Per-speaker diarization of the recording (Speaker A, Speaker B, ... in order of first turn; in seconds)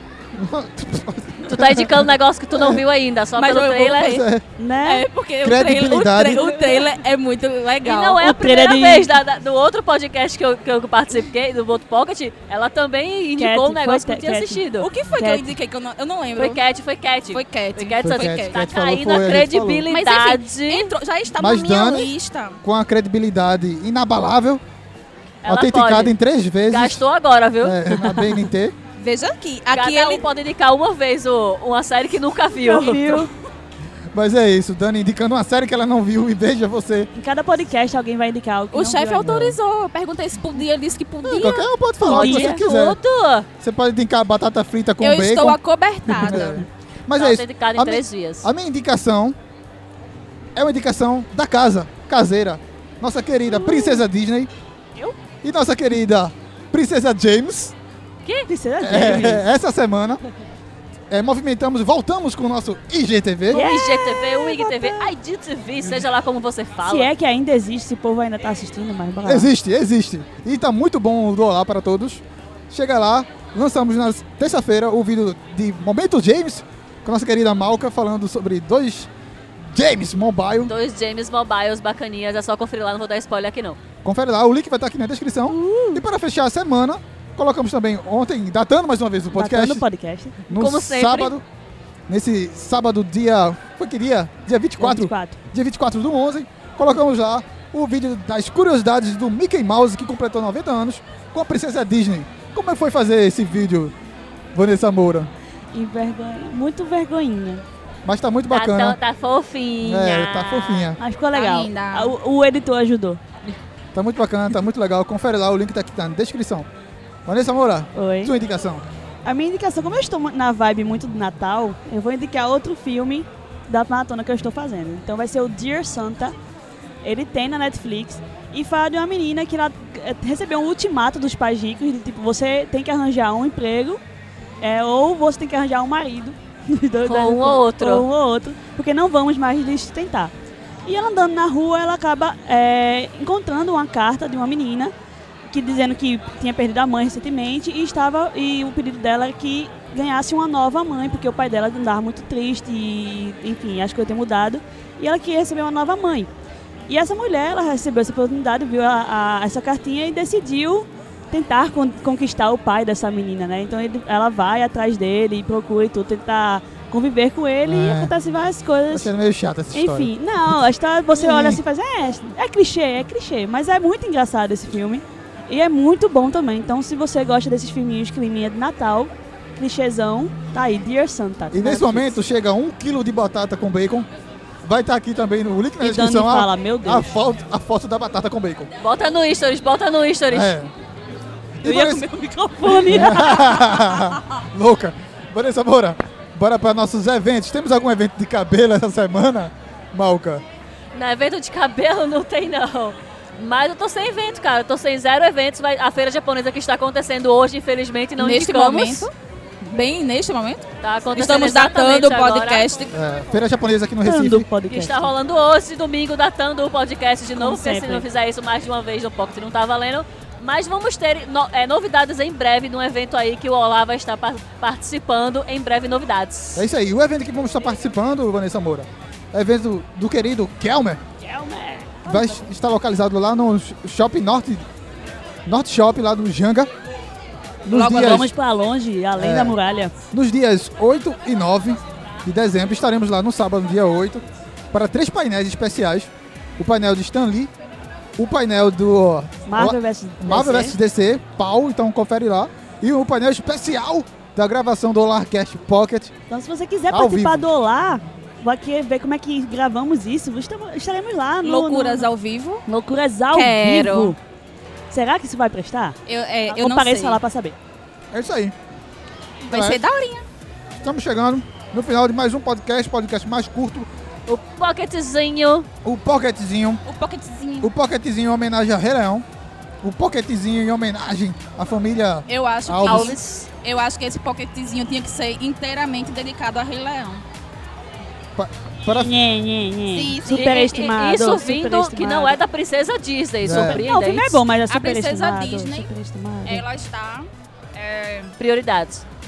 Speaker A: 0.3-2.8, 4.0-4.4, 5.4-6.5, 18.0-19.9, 21.4-24.6, 25.4-27.0, 27.6-28.8, 34.1-37.1, 41.2-43.0, 43.6-45.6, 46.1-49.4, 50.5-54.5, 55.4-57.7, 58.8-60.2, 61.1-63.6, 69.2-79.1, 79.6-80.7, 84.0-89.8, 90.5-91.4, 92.1-103.9, 104.5-105.3, 108.0-109.0, 109.8-111.0, 113.9-116.7, 117.3-118.8, 167.7-168.1, 168.9-170.1, 171.2-171.6, 181.5-184.1, 184.6-188.7, 190.3-190.7, 191.6-192.0, 192.8-200.4, 212.9-214.5, 226.6-231.0, 232.1-234.7, 235.5-236.7, 237.7-238.3, 239.2-239.6, 240.1-247.5, 248.2-256.1, 256.9-257.4, 268.1-268.5, 269.5-269.8, 270.8-273.9, 275.8-276.8, 277.6-279.2, 279.8-283.2, 288.4-289.1, 293.4-293.8
Speaker B: 1.4-4.2, 7.8-14.9, 16.4-20.9, 25.4-26.1, 26.7-27.8, 29.7-33.2, 42.0-43.5, 47.1-48.5, 63.5-67.1, 80.7-83.8, 90.5-91.3, 108.5-111.0, 137.1-138.1, 188.8-190.6, 200.9-209.1, 210.8-212.8, 214.7-226.7, 274.3-275.7, 282.9-283.5, 290.3-294.4, 298.4-299.0
Speaker C: 3.4-4.2, 4.8-8.2, 14.8-16.6, 17.3-18.8, 19.9-22.6, 29.0-30.2, 38.7-41.7, 45.0-46.7, 111.3-112.2, 208.2-209.1, 209.6-210.7, 211.2-212.9, 237.7-238.3, 261.4-262.6, 263.3-264.2, 266.1-267.2, 269.5-270.3, 276.9-277.7, 282.3-287.2, 289.9-290.9, 294.7-295.9, 296.4-298.4
Speaker D: 4.6-5.1, 8.2-9.2, 13.4-15.5, 28.0-28.3, 32.6-33.3, 37.1-39.6, 42.0-42.6, 53.6-54.0, 58.5-59.5, 63.5-65.1, 66.8-69.5, 85.5-86.0, 89.3-90.4, 94.8-95.4, 105.7-107.7, 111.0-113.2, 118.0-118.3, 119.2-126.3, 127.0-134.0, 134.6-140.3, 140.9-144.9, 145.5-156.3, 156.9-169.1, 169.7-182.2, 185.8-187.1, 191.6-193.8, 214.0-215.1, 217.3-218.1, 231.2-232.4, 237.7-239.9, 249.5-250.8, 256.3-262.1, 262.7-264.2, 264.9-266.0, 266.5-267.6, 288.9-292.4, 293.5-296.6